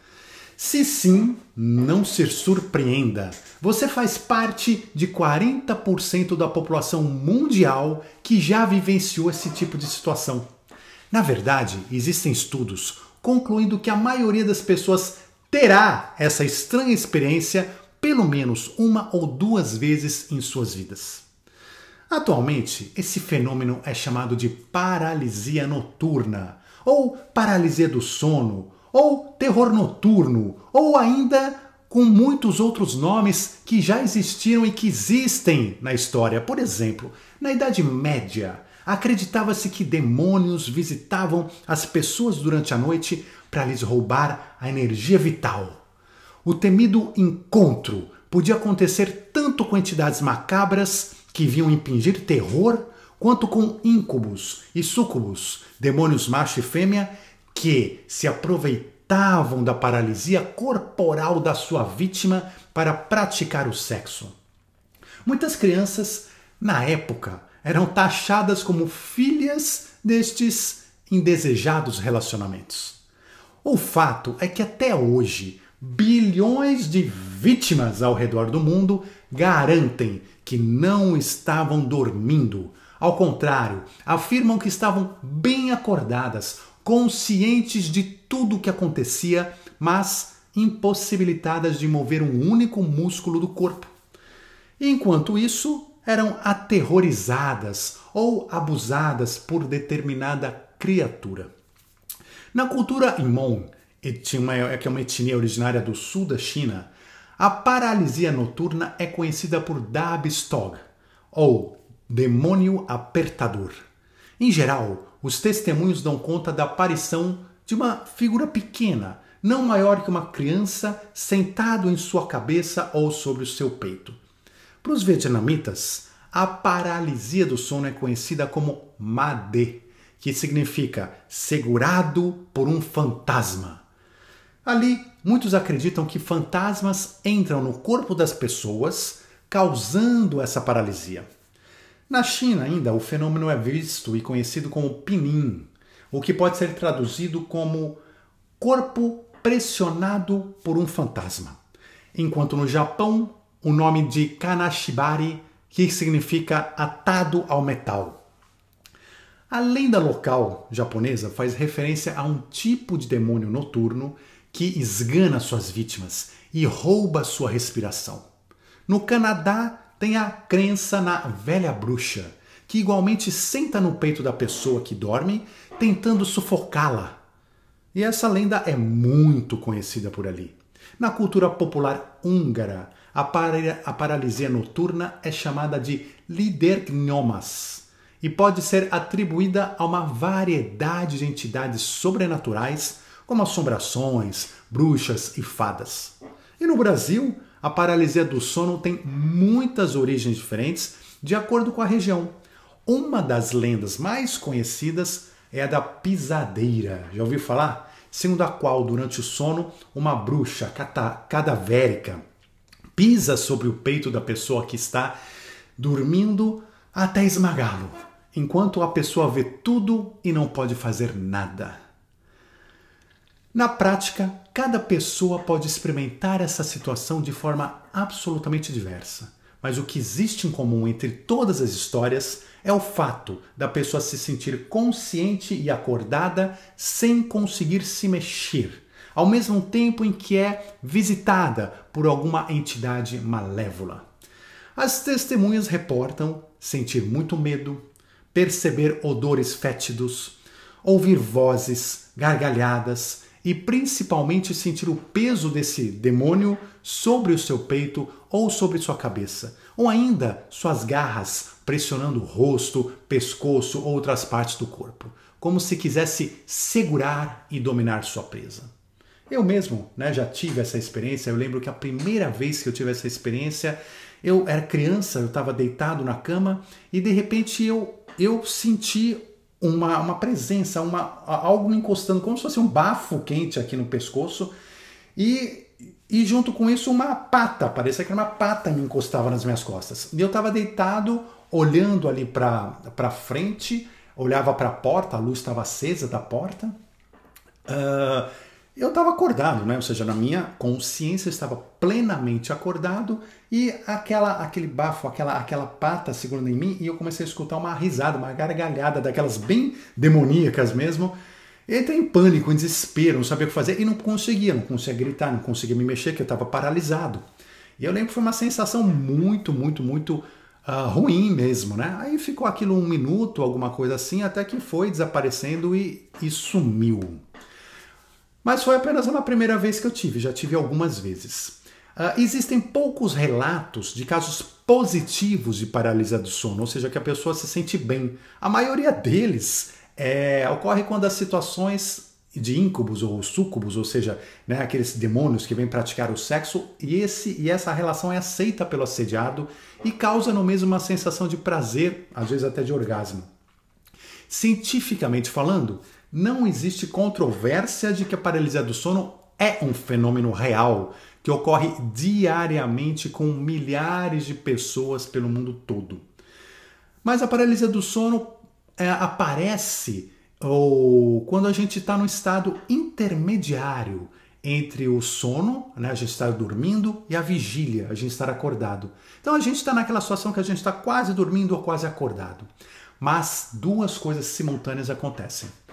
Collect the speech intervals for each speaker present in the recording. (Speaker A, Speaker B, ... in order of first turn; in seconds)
Speaker A: 0.6-10.5, 11.1-21.2, 22.1-45.8, 46.4-64.4, 65.2-73.0, 73.6-93.9, 94.8-101.5, 102.5-113.8, 114.4-124.2, 124.8-133.8, 134.6-141.3, 142.1-148.0, 148.6-151.6, 152.1-158.2, 159.5-168.2, 168.9-177.2, 177.9-202.3, 202.8-212.2, 212.9-215.2, 215.8-221.8, 223.5-244.0, 244.8-268.7, 269.3-284.5, 285.1-296.7, 297.6-311.1, 311.7-317.2, 317.8-327.2, 328.4-353.3, 354.3-366.1, 367.0-382.5, 383.0-385.5